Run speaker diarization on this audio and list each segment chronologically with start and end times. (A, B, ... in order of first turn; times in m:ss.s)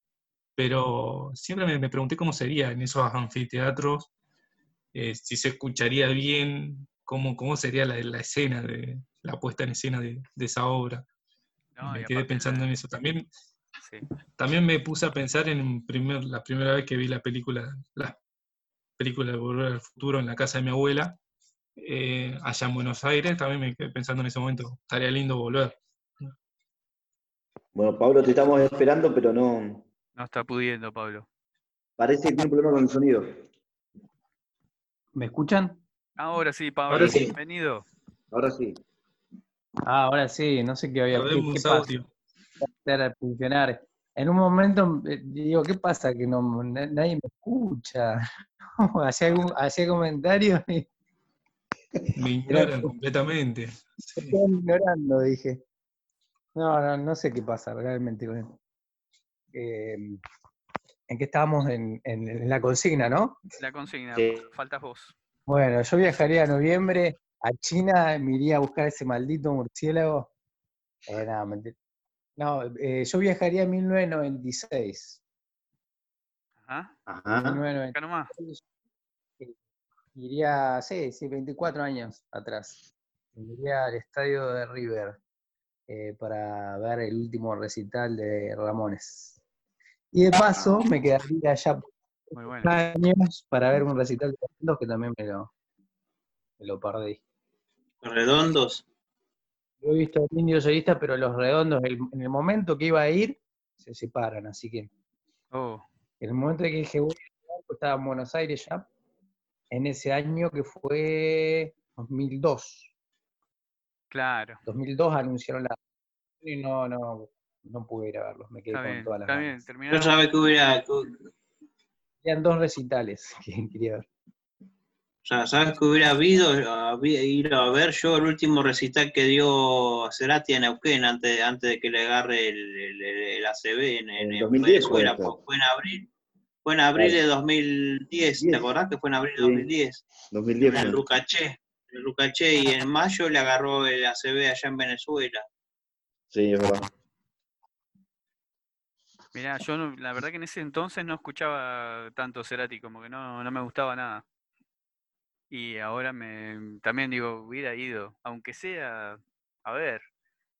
0:00.6-0:04.1 A
0:04.9-0:11.0 A
0:11.7-0:12.7 B
0:11.8-0:13.3 A
0:13.8-0:14.0 B
0:14.4-0:18.2 A
0:19.0-0:21.2 A
0:21.8-0:26.3 A
0:27.7-0:29.9 C
0:30.2-0:31.3 B
0:32.0-0:33.4 C
0:35.1-0:35.8 D
0:36.2-0:37.9 B
0:36.9-0:37.4 A
0:38.3-0:38.8 C
0:39.8-0:41.9 D
0:41.1-0:42.1 A
0:42.8-0:48.2 D
0:48.8-0:50.9 D
0:52.2-0:54.4 A
0:52.5-0:52.9 D
0:54.2-0:55.6 D
0:56.6-0:58.6 D
0:59.5-1:00.2 D
1:01.1-1:03.4 D
1:03.6-1:05.1 B
1:04.1-1:04.5 C
1:05.5-1:10.3 D
1:11.1-1:11.7 D
1:12.4-1:15.2 D
1:16.7-1:17.0 B
1:17.1-1:17.6 C
1:17.4-1:18.6 D
1:17.9-1:18.3 B
1:20.1-1:22.8 D
1:23.3-1:25.2 D
1:25.9-1:29.4 D
1:30.1-1:35.5 D
1:32.3-1:32.7 B
1:36.6-1:37.2 D
1:38.0-1:38.8 E
1:39.8-1:44.9 D
1:45.5-1:45.9 B
1:46.2-1:48.9 D
1:49.7-1:52.9 D
1:54.1-1:54.6 B
1:54.7-1:55.8 D
1:56.4-1:59.6 D
1:58.7-2:00.1 B
1:59.9-2:01.2 E
2:02.2-2:04.1 D
2:05.2-2:16.1 E
2:14.2-2:15.4 C
2:16.6-2:20.0 E
2:17.0-2:17.2 C
2:18.4-2:18.7 C
2:19.4-2:19.7 C
2:20.3-2:21.0 C
2:20.6-2:25.4 E
2:26.3-2:26.9 C
2:29.3-2:34.2 B
2:35.5-2:40.0 B